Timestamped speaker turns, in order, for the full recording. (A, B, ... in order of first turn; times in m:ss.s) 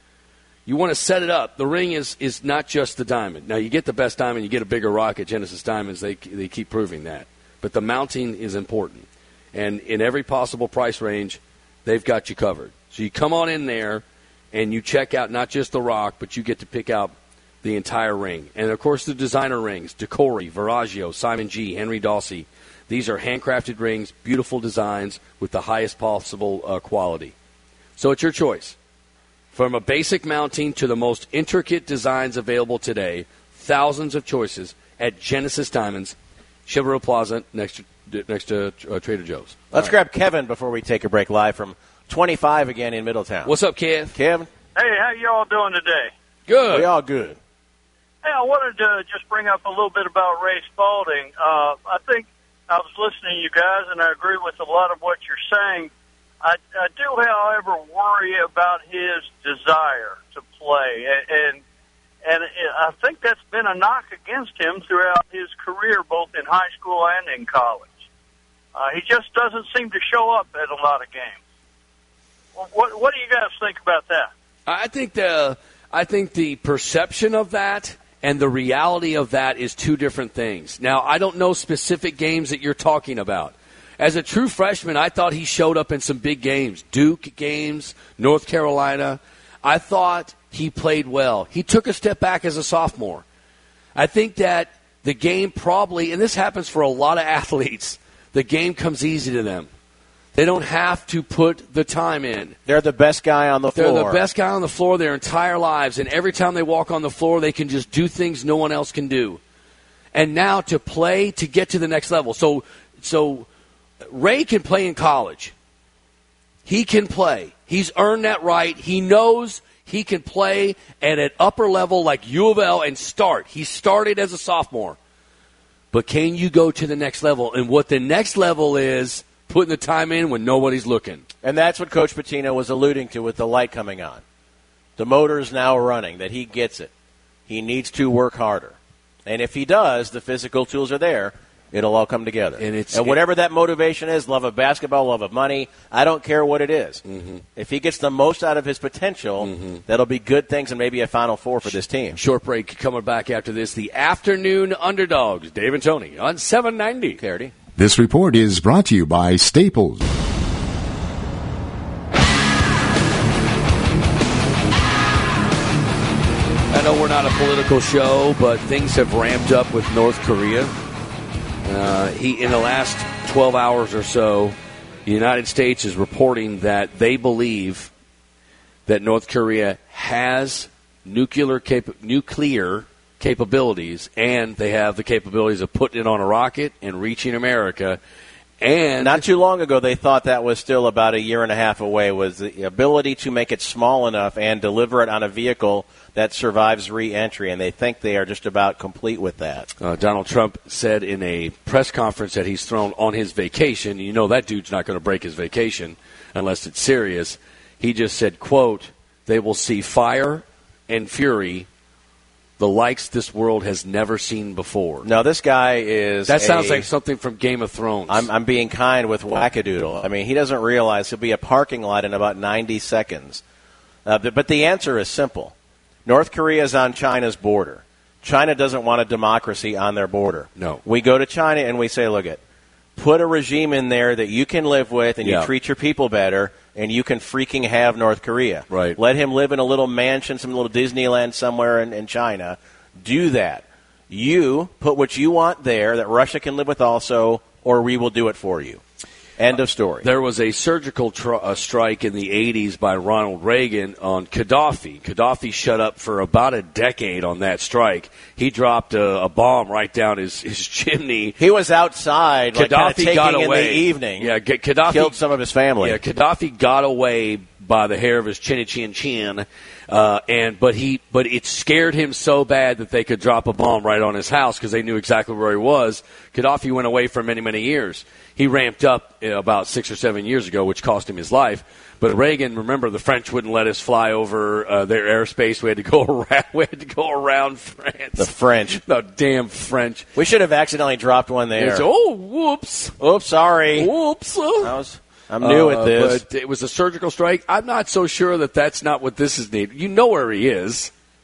0:00.7-0:27.3 A
0:28.0-0:28.8 A
0:29.5-0:36.2 A
0:36.7-0:39.9 A
0:39.7-0:43.5 B
0:43.4-0:44.2 A
0:44.1-0:44.5 B
0:44.8-0:46.1 C
0:46.5-0:46.9 A
0:46.7-0:47.4 B
0:48.2-0:55.9 C
0:56.4-1:01.6 C
1:02.2-1:08.0 C
1:08.8-1:11.4 C
1:12.6-1:14.3 C
1:14.7-1:33.2 A
1:34.0-1:39.7 A
1:40.4-1:42.6 A
1:42.7-1:44.2 B
1:43.8-1:49.4 A
1:50.1-1:53.5 A
1:54.1-1:55.5 A
1:56.6-2:05.0 A
2:05.9-2:11.2 A
2:11.4-2:14.2 B
2:15.0-2:16.9 B
2:17.5-2:27.0 B
2:22.6-2:23.2 A
2:27.1-2:27.4 A
2:27.6-2:32.2 B
2:29.4-2:29.8 A
2:32.2-2:37.2 A
2:37.2-2:37.5 B
2:37.8-2:40.0 D
2:46.7-2:50.7 A
2:51.6-2:57.9 A
2:58.9-3:08.0 A
3:08.6-3:09.2 A
3:09.0-3:19.7 B
3:19.8-3:31.7 A
3:32.6-3:35.1 A
3:35.0-3:36.9 B
3:36.3-3:38.3 A
3:38.1-3:43.4 B
3:44.0-3:45.5 B
3:46.1-3:52.4 B
3:50.6-3:50.8 A
3:53.0-4:08.8 B
3:55.2-3:55.5 A
3:58.7-3:59.0 A
4:09.4-4:10.1 B
4:10.0-4:21.4 A
4:21.4-4:24.3 B
4:22.5-4:25.2 A
4:24.9-4:26.0 B
4:25.8-4:48.3 A
4:48.2-4:48.8 B
4:48.8-4:50.1 A
4:50.2-4:51.8 B
4:51.6-4:53.0 A
4:53.0-4:53.9 B
4:53.8-4:54.8 A
4:54.6-4:56.2 B
4:55.4-5:00.9 A